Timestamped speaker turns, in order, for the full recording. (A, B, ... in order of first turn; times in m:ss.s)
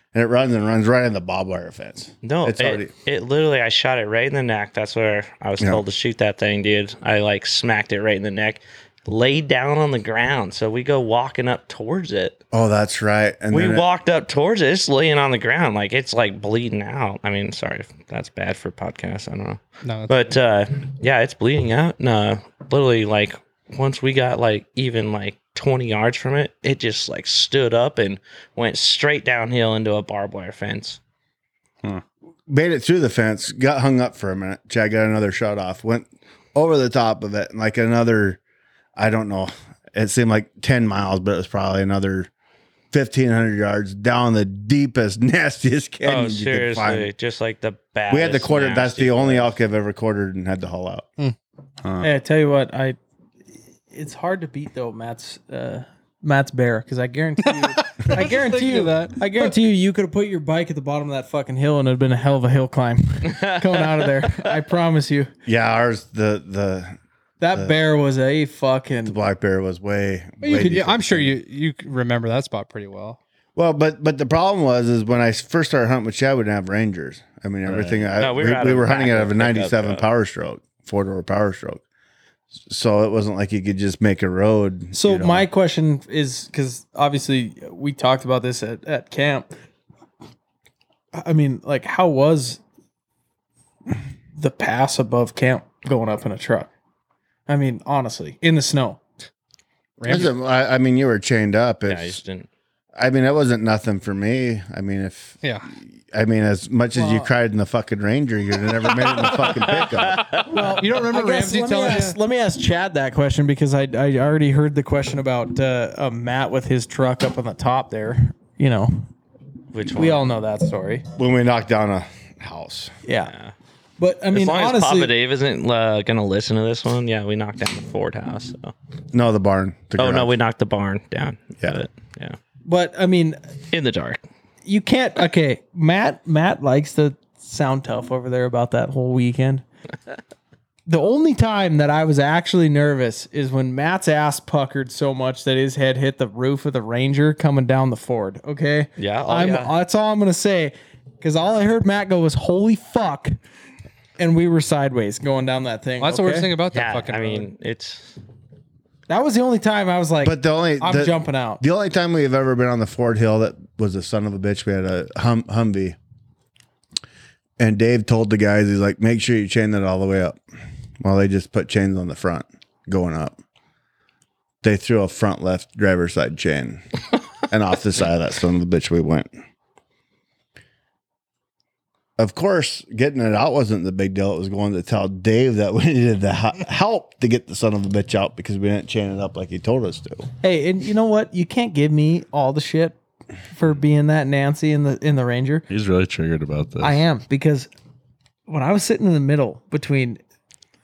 0:00.1-0:02.9 A
0:02.2-0:12.4 B
0:12.5-0:13.8 A
0:13.5-0:31.0 B
0:19.8-0:20.4 C
0:32.5-0:38.4 A
0:39.0-0:42.3 A
0:42.9-0:47.1 A
0:46.0-0:49.6 B
0:48.1-0:51.1 A
0:51.8-0:52.1 D
0:52.0-0:53.0 E
0:53.9-1:05.3 E
0:57.5-0:59.6 C
1:03.3-1:03.6 B
1:05.5-1:07.0 A
1:07.4-1:09.2 E
1:09.0-1:11.3 A
1:10.4-1:13.2 C
1:10.5-1:10.8 E
1:13.6-1:21.8 A
1:17.6-1:18.1 D
1:18.2-1:20.0 B
1:22.7-1:25.5 A
1:24.9-1:29.5 E
1:31.1-1:32.6 E
1:34.4-1:36.7 E
1:37.5-1:39.0 E
1:40.0-1:40.4 C
1:40.0-1:42.2 A
1:41.9-1:42.5 B
1:43.0-1:50.3 A
1:45.4-1:45.7 C
1:47.0-1:47.3 E
1:49.7-1:50.6 B
1:50.4-1:59.1 E
1:50.8-1:52.2 C
1:59.7-2:00.3 B
1:59.9-2:01.0 E
2:01.2-2:02.9 A
2:03.0-2:03.4 E
2:03.2-2:03.5 B
2:04.0-2:05.1 E
2:04.3-2:08.7 B
2:09.1-2:10.3 A
2:10.0-2:12.4 B
2:12.6-2:13.6 E
2:13.7-2:14.2 B
2:14.6-2:19.6 E
2:20.9-2:33.4 E
2:29.0-2:29.8 B
2:34.2-2:36.5 E
2:36.0-2:37.5 C
2:36.7-2:38.1 B
2:39.1-2:41.6 E
2:40.2-2:46.0 A
2:47.6-2:50.4 A
2:51.0-2:53.4 A
2:54.6-2:56.8 A
2:57.5-2:59.3 A
3:02.2-3:10.3 A
3:10.4-3:13.0 E
3:13.5-3:15.7 E
3:15.7-3:17.0 D
3:16.8-3:17.7 E
3:18.5-3:20.2 E